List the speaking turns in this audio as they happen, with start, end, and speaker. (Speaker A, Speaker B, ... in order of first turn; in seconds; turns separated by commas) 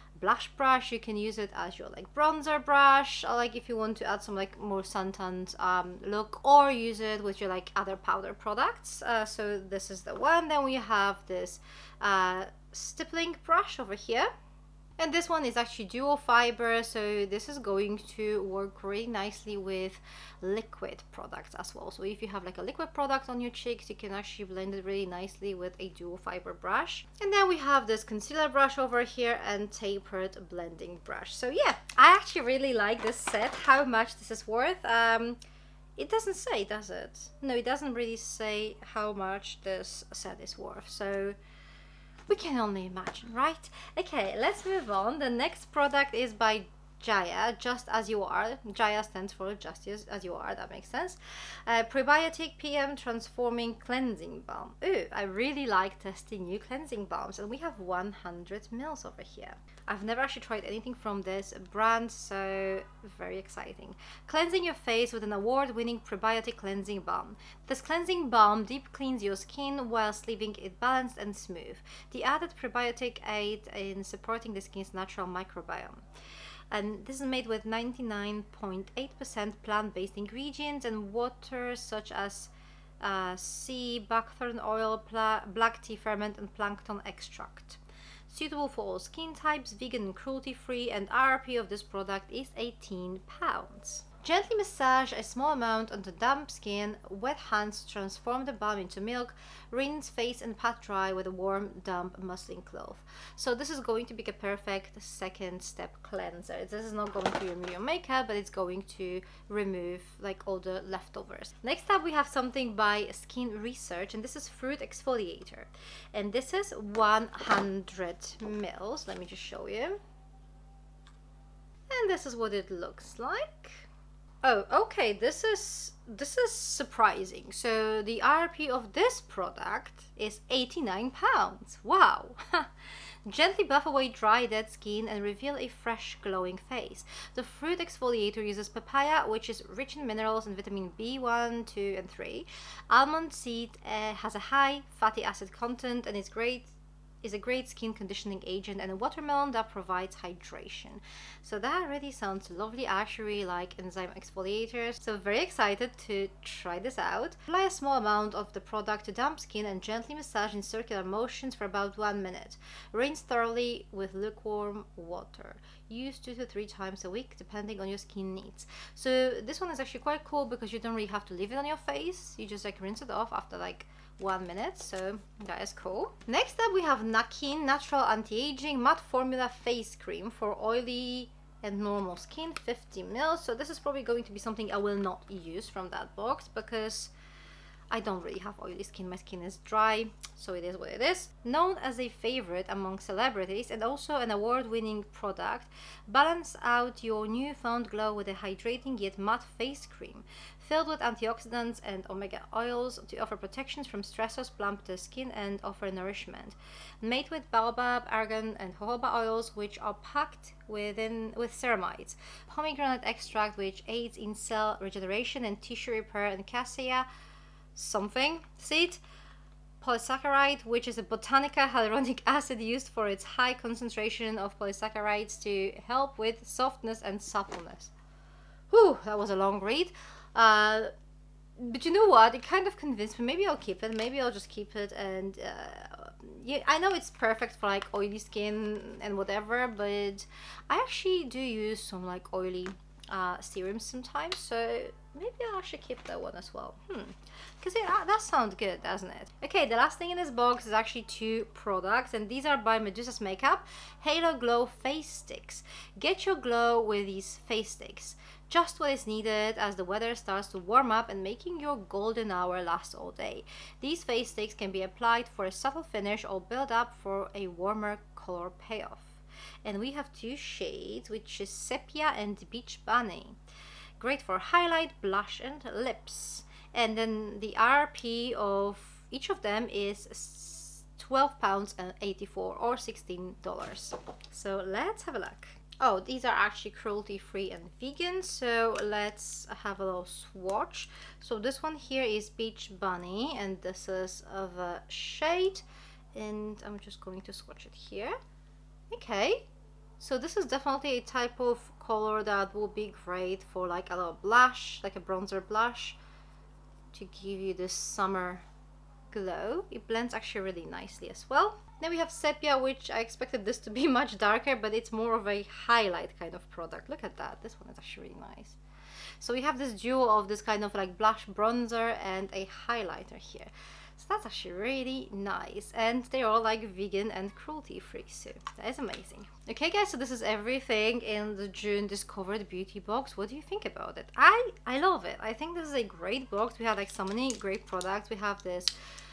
Speaker A: 0.1-14.3, Speaker A: 15.0-35.4, Speaker A: 36.0-41.4, Speaker A: 42.3-76.0, Speaker A: 76.7-120.0, Speaker A: 121.9-123.9, Speaker A: 124.4-132.7, Speaker A: 133.2-146.7, Speaker A: 147.2-187.1, Speaker A: 187.9-217.1, Speaker A: 217.7-219.0, Speaker A: 219.8-227.9, Speaker A: 228.7-230.9, Speaker A: 231.6-273.4, Speaker A: 274.0-298.1, Speaker A: 298.9-299.5, Speaker A: 300.0-306.0, Speaker A: 306.9-308.4, Speaker A: 309.1-318.6, Speaker A: 319.2-338.7